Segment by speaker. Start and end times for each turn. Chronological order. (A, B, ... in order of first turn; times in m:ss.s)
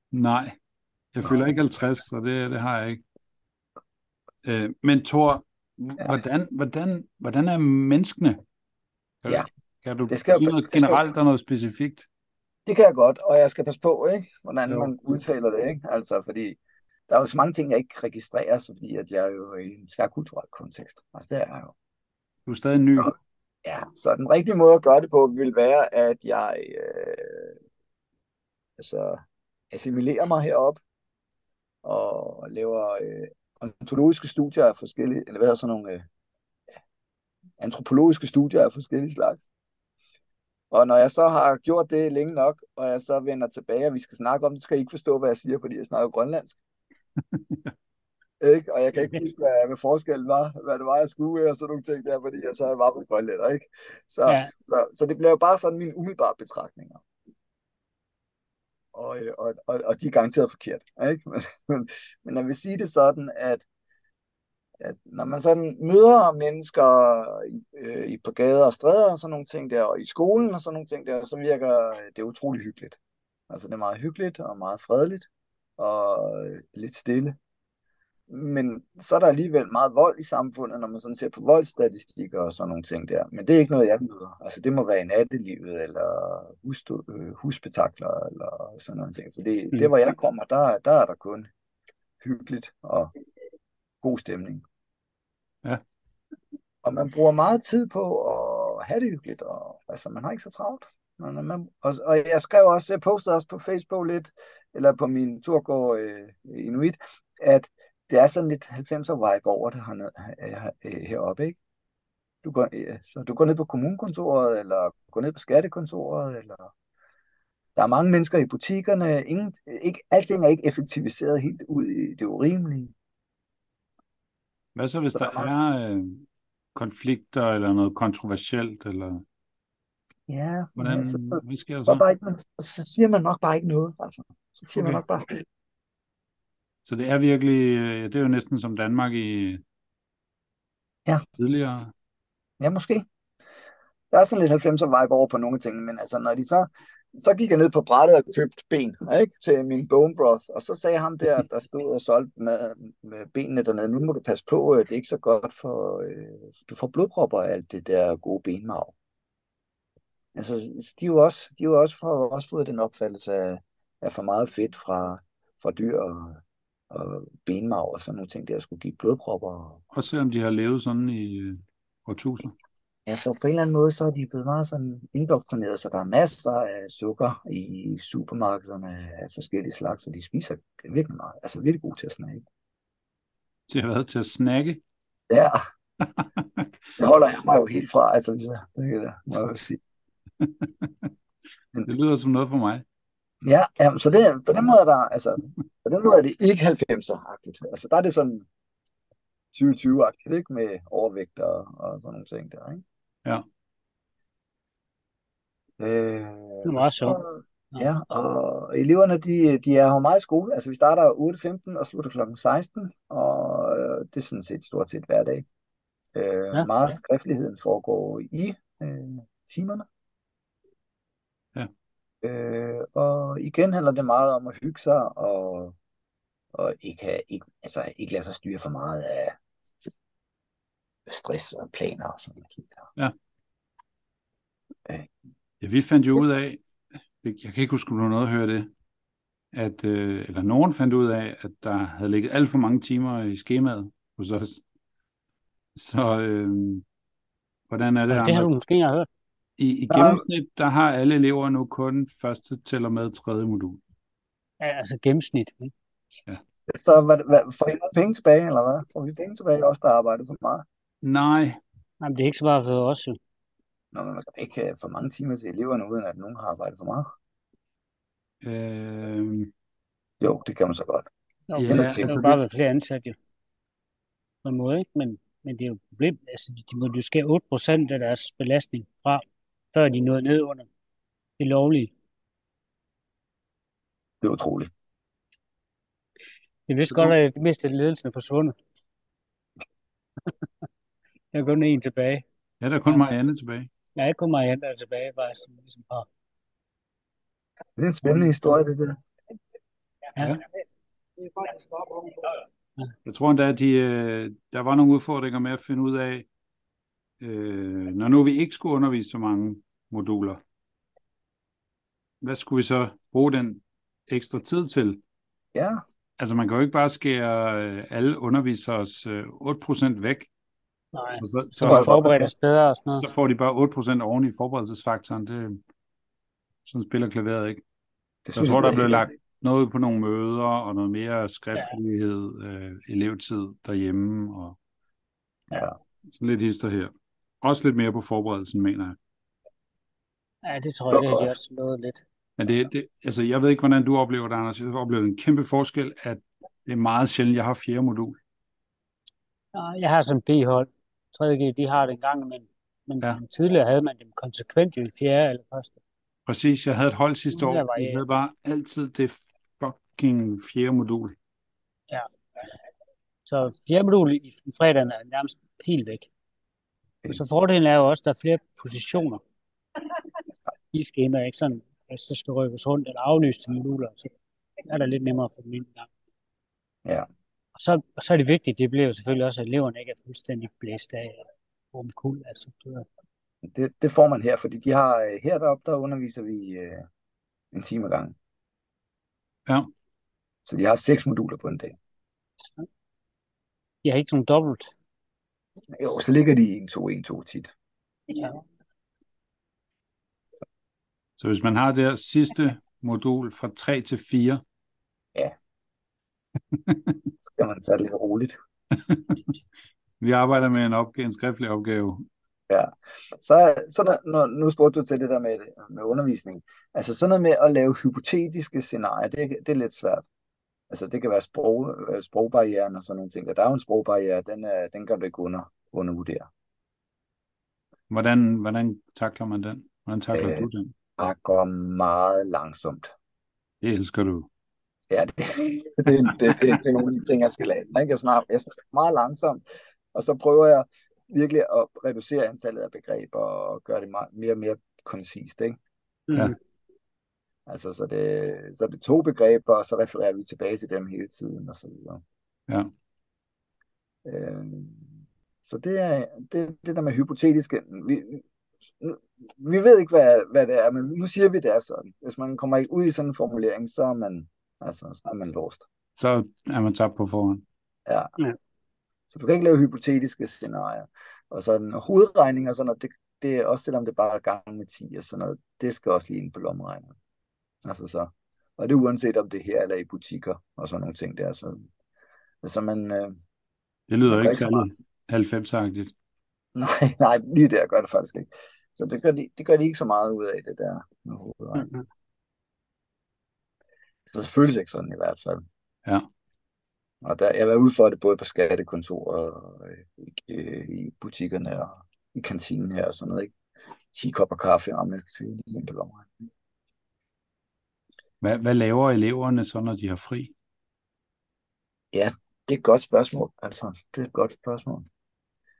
0:00.1-0:00.6 A
0:01.1-0:03.0 A
0:04.4-0:08.4 A
0:09.2-0:12.1 A
0:10.1-0:11.0 B
0:12.7-0:16.6 B
0:14.7-0:14.9 A
0:17.1-0:21.7 B
0:22.5-0:23.1 A
0:23.6-0:27.6 B
0:28.8-0:29.2 B
0:29.7-0:30.8 B
0:31.8-0:36.0 B
0:37.6-0:39.5 B
0:40.7-0:46.6 B
0:47.3-0:47.7 A
0:48.4-0:57.0 B
0:58.9-1:03.6 B
1:04.8-1:13.0 B
1:13.5-1:15.3 B
1:15.8-1:17.4 B
1:18.3-1:31.5 B
1:32.2-1:33.1 B
1:34.0-1:34.6 B
1:36.8-1:51.6 B
1:52.4-1:56.7 B
1:57.8-2:02.9 B
2:04.8-2:09.2 A
2:05.2-2:05.5 B
2:10.3-2:15.4 B
2:10.8-2:12.0 A
2:14.8-2:15.0 A
2:16.8-2:19.6 A
2:21.4-2:21.9 A
2:22.6-2:23.1 B
2:24.1-2:38.9 B
2:40.4-2:49.8 B
2:49.9-2:52.6 A
2:53.1-3:02.4 B
3:03.7-3:04.8 A
3:05.3-3:05.6 B
3:06.0-3:06.7 A
3:07.0-3:09.8 B
3:10.4-3:11.1 A
3:11.9-3:12.8 A
3:13.4-3:18.5 B
3:19.5-3:22.8 B
3:25.8-3:35.5 B
3:26.6-3:27.2 C
3:36.2-3:39.9 B
3:42.2-3:45.8 B
3:46.5-3:49.4 B
3:51.1-3:52.9 B
3:55.6-3:56.6 A
3:57.2-3:58.7 A
3:59.5-4:04.6 A
4:05.8-4:06.8 A
4:07.7-4:08.6 A
4:08.1-4:09.1 C
4:09.6-4:13.8 A
4:09.9-4:10.2 B
4:14.6-4:15.7 C
4:16.7-4:20.6 B
4:21.0-4:21.6 A
4:22.0-4:23.2 C
4:23.9-4:27.1 B
4:28.4-4:29.5 A
4:30.2-4:31.1 B
4:31.5-4:33.2 C
4:31.6-4:32.4 A
4:31.7-4:32.1 B
4:34.4-4:40.7 C
4:41.4-4:41.9 C
4:44.2-4:44.7 B
4:46.7-4:48.6 C
4:51.3-4:52.2 C
4:52.6-4:53.7 A
4:52.9-4:53.1 C
4:54.0-4:56.1 C
4:57.8-4:59.0 B
5:03.0-5:06.3 A
5:07.2-5:10.4 A
5:12.2-5:15.0 A
5:15.6-5:15.8 B
5:16.2-5:20.3 A
5:20.9-5:23.1 C
5:21.2-5:21.9 A
5:21.6-5:22.3 B
5:23.0-5:25.6 A
5:26.6-5:27.6 A
5:28.3-5:29.1 B
5:28.4-5:34.6 A
5:36.1-5:39.0 A
5:40.4-5:42.0 C
5:40.9-5:41.3 B
5:42.4-5:48.2 A
5:49.5-5:55.8 C
5:56.3-6:01.2 A
5:57.3-5:58.0 C
6:03.3-6:06.1 C
6:07.1-6:09.2 C
6:10.7-6:14.1 C
6:14.7-6:15.9 C
6:17.6-6:22.9 C
6:23.4-6:26.9 B
6:27.5-6:28.2 B
6:30.5-6:31.8 B
6:33.8-6:34.7 C
6:35.8-6:37.5 B
6:38.1-6:38.4 C
6:41.2-6:44.4 A
6:46.5-6:47.0 A
6:47.2-6:48.4 B
6:48.8-6:49.2 A
6:50.0-6:52.0 A
6:52.5-7:00.1 B
7:00.7-7:06.3 B
7:07.9-7:10.7 A
7:10.1-7:12.9 B
7:13.6-7:14.3 A
7:14.9-7:19.4 B
7:19.9-7:25.6 B
7:26.1-7:26.4 C
7:27.5-7:32.0 B
7:34.0-7:34.9 B
7:35.4-7:38.2 B
7:38.8-7:45.7 B
7:46.0-7:47.4 A
7:47.9-7:48.1 B
7:49.1-7:57.0 B
7:57.6-8:01.7 B
8:02.4-8:03.2 B
8:03.9-8:05.9 A
8:04.1-8:04.7 B
8:06.6-8:11.7 B
8:11.6-8:11.8 C
8:14.1-8:15.4 B
8:17.0-8:23.3 B
8:23.9-8:26.1 B
8:28.2-8:30.3 A
8:31.9-8:34.9 B